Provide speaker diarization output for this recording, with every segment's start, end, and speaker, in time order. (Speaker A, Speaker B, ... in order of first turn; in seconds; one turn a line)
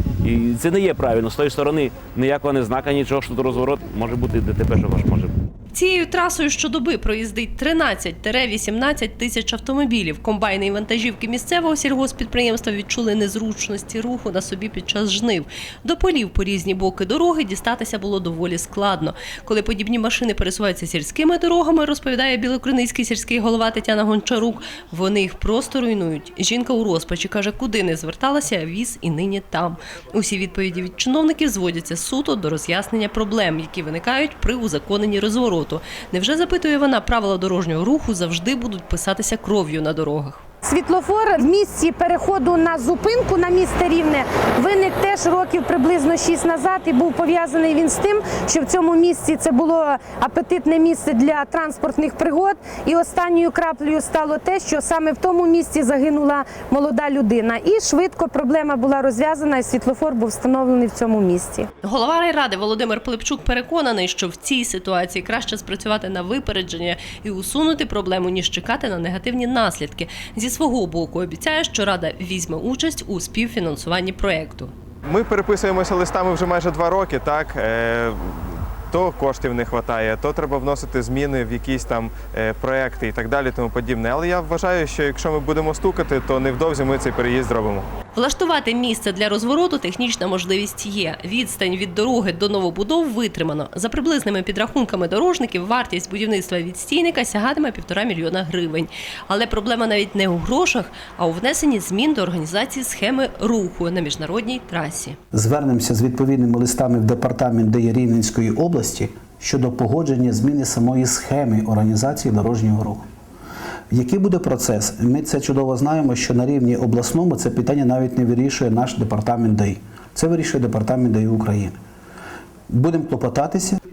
Speaker A: 0.2-5.3
Speaker B: 5.7-40.4
Speaker C: 40.6-61.7
Speaker B: 61.8-74.7
Speaker D: 75.1-87.8
Speaker B: 88.2-105.2
Speaker E: 105.3-113.0
Speaker E: 113.9-121.8
Speaker E: 122.7-123.8